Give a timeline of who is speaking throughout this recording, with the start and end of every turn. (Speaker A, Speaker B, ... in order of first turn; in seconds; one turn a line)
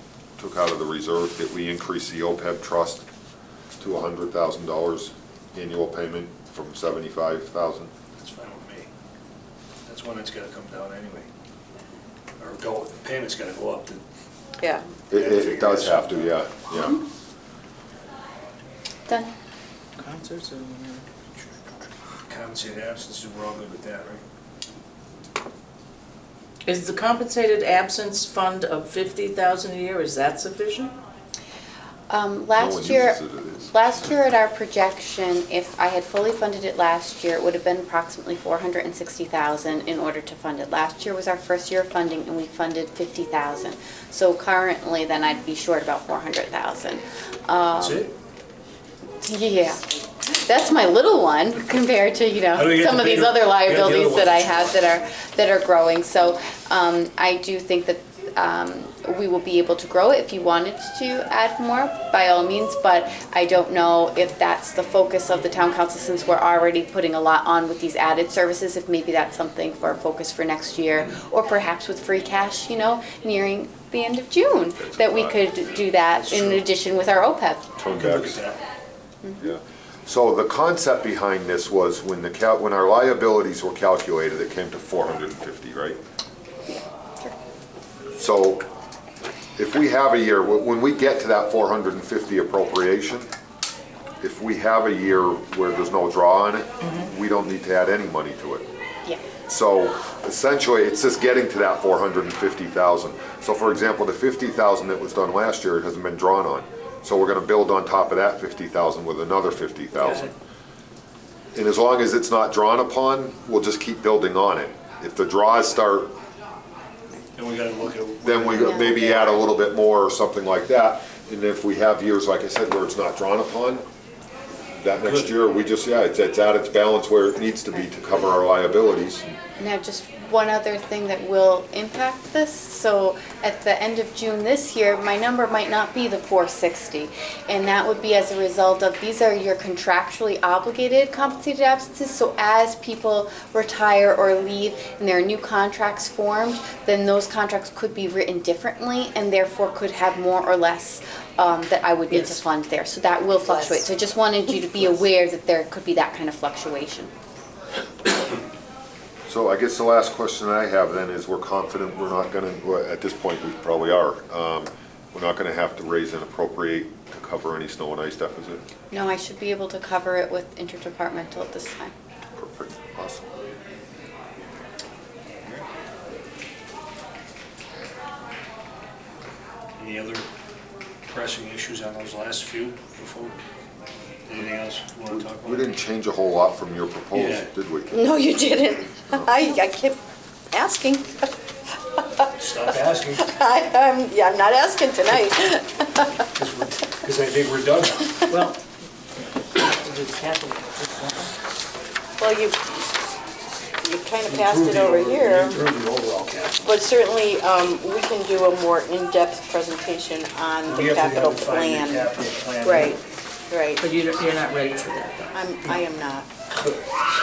Speaker A: 0.4-3.0
Speaker A: 3.8-7.9
Speaker B: 8.2-8.9
Speaker B: 9.8-11.3
Speaker B: 12.4-14.0
Speaker C: 14.6-14.9
Speaker A: 15.1-17.0
Speaker B: 15.1-16.4
Speaker D: 20.0-21.1
Speaker B: 22.3-24.2
Speaker D: 26.7-30.9
Speaker E: 32.1-48.1
Speaker A: 32.6-33.8
Speaker B: 47.8-48.1
Speaker E: 49.2-77.8
Speaker B: 52.5-54.8
Speaker A: 74.8-75.4
Speaker A: 77.8-78.4
Speaker B: 77.9-78.6
Speaker A: 79.4-86.0
Speaker E: 86.7-87.3
Speaker A: 88.1-88.7
Speaker A: 89.6-93.3
Speaker A: 94.2-98.7
Speaker A: 99.5-110.3
Speaker B: 110.0-110.3
Speaker A: 111.5-116.1
Speaker B: 117.3-119.4
Speaker A: 118.2-123.9
Speaker E: 118.6-119.1
Speaker A: 124.7-129.4
Speaker B: 125.0-125.3
Speaker E: 129.6-157.1
Speaker D: 152.1-152.4
Speaker A: 159.3-168.6
Speaker E: 168.9-171.9
Speaker A: 172.4-173.3
Speaker B: 179.8-180.3
Speaker B: 181.1-183.4
Speaker B: 184.3-185.8
Speaker A: 185.1-188.3
Speaker B: 187.1-187.5
Speaker C: 187.9-190.0
Speaker A: 189.0-189.4
Speaker C: 190.5-191.3
Speaker B: 192.4-193.3
Speaker C: 192.9-196.2
Speaker B: 196.4-198.2
Speaker D: 198.3-198.6
Speaker D: 199.6-201.3
Speaker C: 202.2-202.6
Speaker C: 203.8-205.6
Speaker B: 204.3-206.8
Speaker C: 206.6-212.1
Speaker B: 210.7-213.0
Speaker C: 212.6-213.9
Speaker D: 213.8-215.4
Speaker C: 215.3-216.5